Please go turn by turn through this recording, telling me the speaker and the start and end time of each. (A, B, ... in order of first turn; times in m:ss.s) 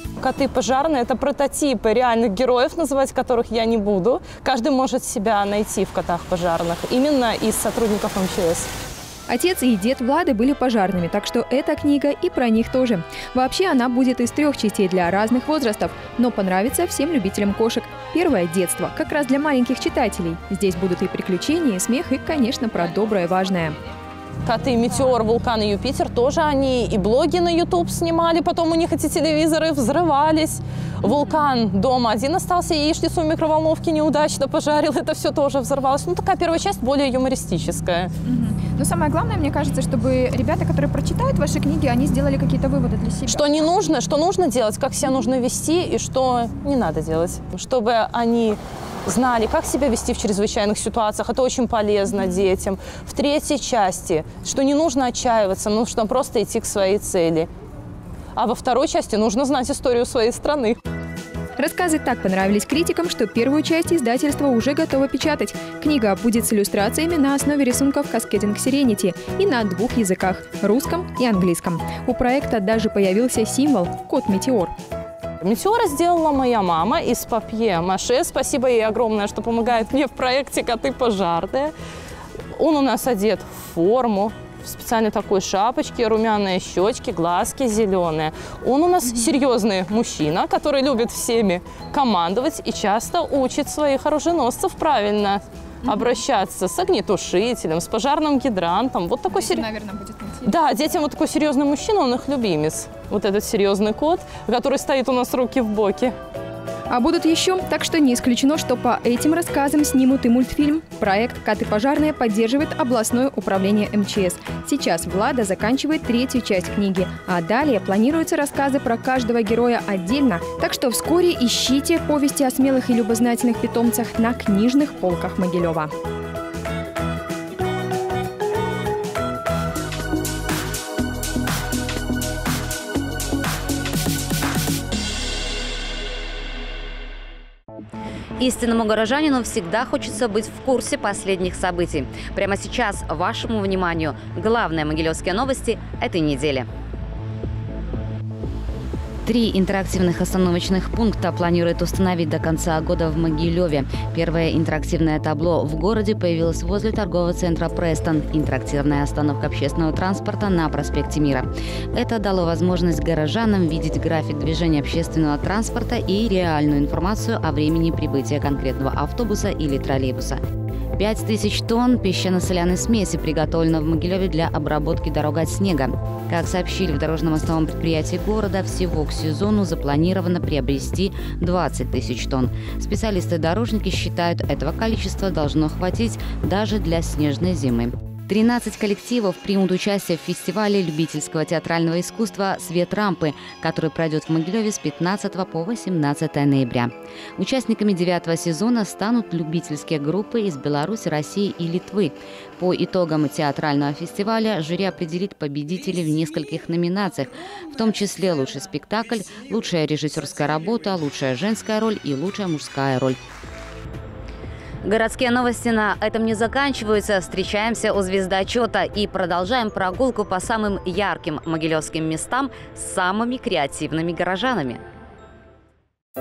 0:00.2-0:08.7 A
0:09.3-0:23.8 B
0:24.4-0:38.1 A
0:38.2-0:43.6 B
0:43.3-0:57.5 A
0:58.4-1:00.8 A
1:01.6-1:14.7 B
1:15.4-1:21.7 A
1:22.6-1:39.7 A
1:39.3-1:40.5 B
1:40.4-1:46.2 A
1:46.9-2:05.9 B
2:18.4-2:26.7 C
2:29.2-2:50.4 C
2:51.0-3:33.2 C
3:34.8-3:44.8 C